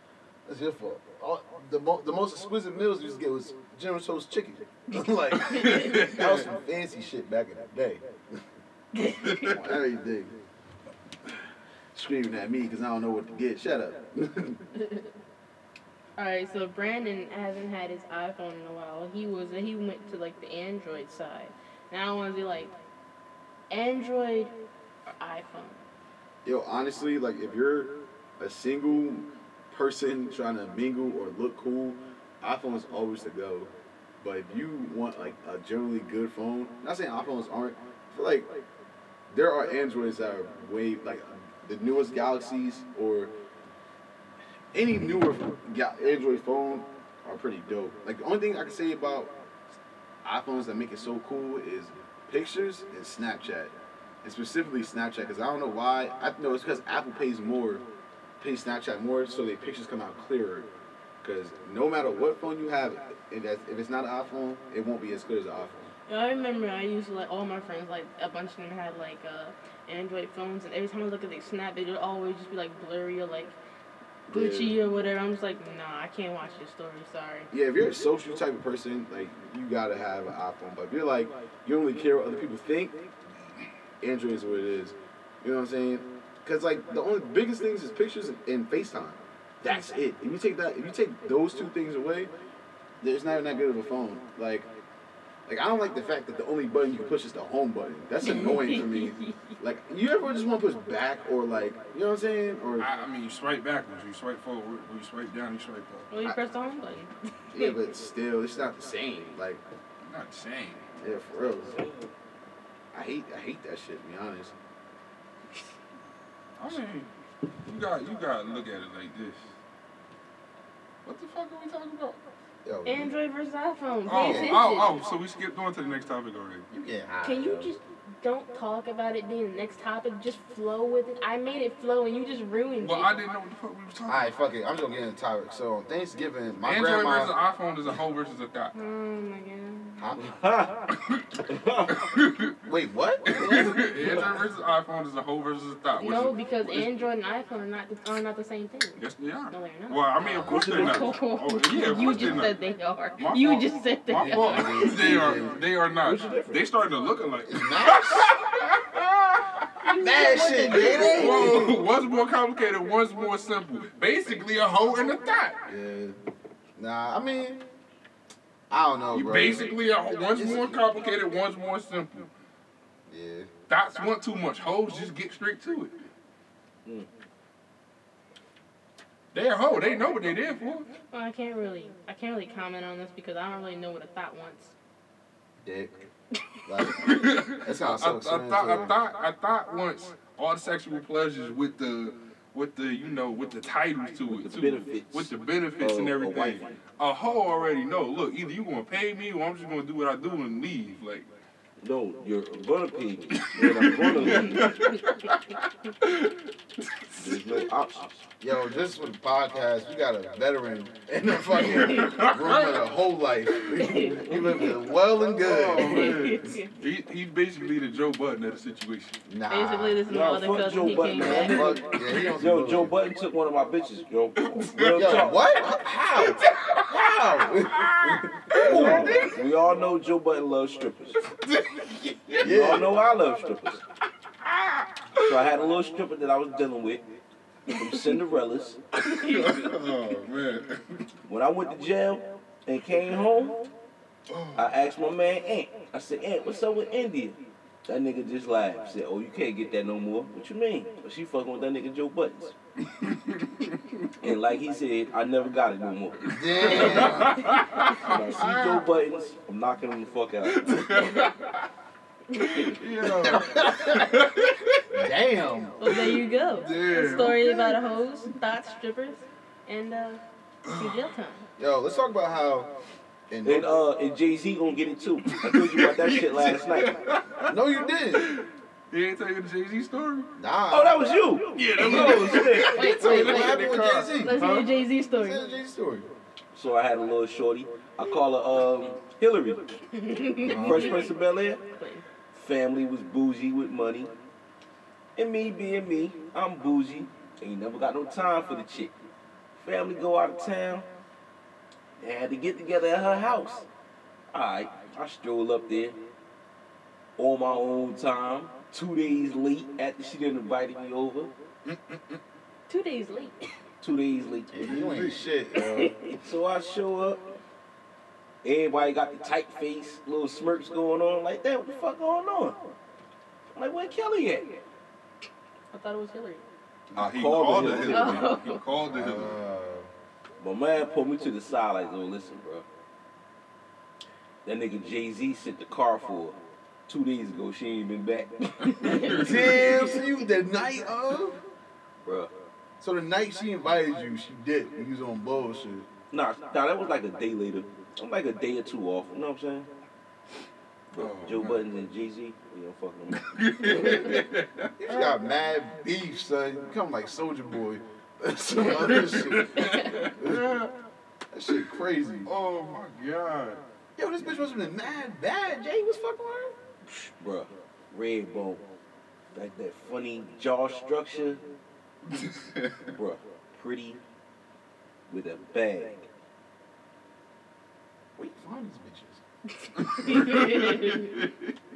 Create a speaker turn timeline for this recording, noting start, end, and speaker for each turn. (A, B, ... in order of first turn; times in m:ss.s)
0:00.4-0:08.4 A
0:05.4-0:06.5 B
0:08.9-0:09.6 C
0:09.2-0:09.5 B
0:09.4-0:10.4 A
0:11.9-0:14.6 A
0:16.2-0:22.7 C
0:23.7-0:24.5 C
0:25.2-0:25.8 C
0:26.4-0:38.6 A
0:39.3-0:43.3 A
0:44.7-0:49.3 A
0:50.2-0:57.8 A
0:58.4-1:00.7 A
1:01.2-1:05.9 A
1:06.1-1:13.6 C
1:14.3-1:14.8 A
1:14.3-1:17.5 C
1:17.5-1:23.0 A
1:24.0-1:32.3 A
1:33.0-1:34.7 A
1:35.4-1:42.9 A
1:38.2-1:39.4 C
1:42.8-1:46.1 B
1:46.1-1:47.8 C
1:47.5-1:49.6 A
1:50.0-1:50.9 B
1:51.0-1:51.8 A
1:51.6-1:52.1 D
1:52.9-1:54.5 A
1:56.6-1:57.1 B
1:57.6-1:59.5 B
2:01.0-2:02.2 B
2:02.6-2:03.1 A
2:02.8-2:05.0 C
2:04.0-2:06.7 B
2:04.1-2:04.6 A
2:06.7-2:07.7 A
2:07.2-2:13.2 C
2:12.8-2:14.3 B
2:14.0-2:17.4 A
2:16.6-2:18.7 B
2:18.7-2:20.0 C
2:20.0-2:20.3 A
2:20.2-2:20.9 D
2:21.0-2:21.3 B
2:21.4-2:22.1 D
2:21.9-2:22.6 B
2:22.6-2:24.3 A
2:23.3-2:26.9 B
2:23.4-2:24.4 D
2:26.0-2:29.0 C
2:29.0-2:32.6 B
2:29.5-2:35.2 C
2:30.2-2:30.6 A
2:30.4-2:31.1 D
2:32.0-2:32.5 A
2:33.2-2:39.9 B
2:34.2-2:35.6 A
2:36.0-2:36.6 D
2:37.5-2:38.3 A
2:39.8-2:41.7 C
2:39.9-2:41.8 A
2:40.7-2:45.6 B
2:45.7-2:46.2 A
2:46.8-2:47.6 A
2:48.7-2:49.7 A
2:49.1-2:52.3 B
2:50.4-2:50.8 A
2:53.1-2:53.5 A
2:53.7-2:55.9 B
2:59.3-3:00.9 B
3:01.1-3:04.7 C
3:05.6-3:06.0 A
3:06.6-3:08.9 A
3:06.9-3:21.3 B
3:14.3-3:16.8 D
3:21.8-3:24.8 D
3:23.4-3:27.7 B
3:27.2-3:28.3 D
3:28.4-3:36.6 A
3:31.5-3:32.8 B
3:33.8-3:34.7 C
3:35.4-3:39.2 B
3:35.8-3:36.7 C
3:39.2-3:40.0 A
3:39.5-3:41.7 C
3:40.1-3:45.4 D
3:41.1-3:42.9 A
3:41.7-3:42.2 B
3:44.4-3:45.6 B
3:44.9-3:49.3 A
3:46.2-3:47.0 B
3:47.6-3:49.3 B
3:48.5-3:51.2 D
3:51.2-3:52.6 B
3:52.4-3:52.9 A
3:52.4-3:53.8 D
3:54.4-3:55.5 B
3:55.2-3:57.0 D
3:57.7-3:58.8 D
3:59.0-4:01.0 B
3:59.2-3:59.5 C
4:01.2-4:03.6 D
4:04.3-4:04.7 B
4:04.6-4:12.6 D
4:12.9-4:13.9 B
4:14.2-4:17.4 D
4:16.3-4:17.4 A
4:16.6-4:18.9 B
4:17.9-4:21.1 D
4:20.4-4:21.6 B
4:22.3-4:22.7 C
4:22.4-4:24.9 B
4:23.2-4:23.7 A
4:24.9-4:25.8 A
4:25.8-4:30.2 C
4:25.9-4:27.8 B
4:30.6-4:31.0 B
4:30.7-4:31.4 C
4:31.6-4:32.7 A
4:33.3-4:33.7 A
4:33.4-4:36.9 D
4:35.3-4:37.5 B
4:37.5-4:38.3 A
4:38.1-4:40.3 B
4:40.4-4:41.1 A
4:40.7-4:42.8 D
4:41.5-4:44.7 B
4:42.6-4:45.4 C
4:42.6-4:46.1 A
4:46.5-4:49.8 D
4:49.9-4:52.0 C
4:50.4-4:51.1 A
4:50.5-4:51.6 D
4:52.3-4:54.1 D
4:55.2-4:58.9 D
4:59.6-5:00.9 D
5:02.0-5:03.7 D
5:04.3-5:06.0 D
5:07.2-5:11.3 D
5:11.7-5:12.2 B
5:12.7-5:13.4 C
5:13.8-5:14.9 D
5:14.5-5:15.9 A
5:14.6-5:15.2 B
5:15.5-5:15.9 C
5:16.2-5:17.2 D
5:18.4-5:22.7 D
5:23.5-5:24.6 D
5:25.7-5:26.4 C
5:26.9-5:28.3 D
5:26.9-5:29.4 B
5:27.5-5:27.8 A
5:27.9-5:28.6 C
5:28.8-5:29.9 A
5:30.4-5:32.6 D
5:34.4-5:39.4 D
5:38.8-5:39.9 C
5:38.8-5:39.4 B
5:39.2-5:41.4 A
5:42.0-5:42.3 D
5:42.8-5:45.9 A
5:46.1-5:49.7 D
5:50.9-5:54.2 D
5:51.0-5:51.6 B
5:53.2-5:55.1 B
5:54.8-6:00.5 A
5:58.6-6:00.8 B
5:59.6-5:59.9 C
6:01.3-6:02.3 A
6:02.2-6:03.6 B
6:04.0-6:06.6 A
6:06.8-6:08.6 D
6:09.3-6:11.4 D
6:12.1-6:12.8 B
6:12.9-6:14.0 D
6:15.1-6:16.0 D
6:18.2-6:19.2 A
6:19.6-6:21.3 C
6:19.8-6:21.5 B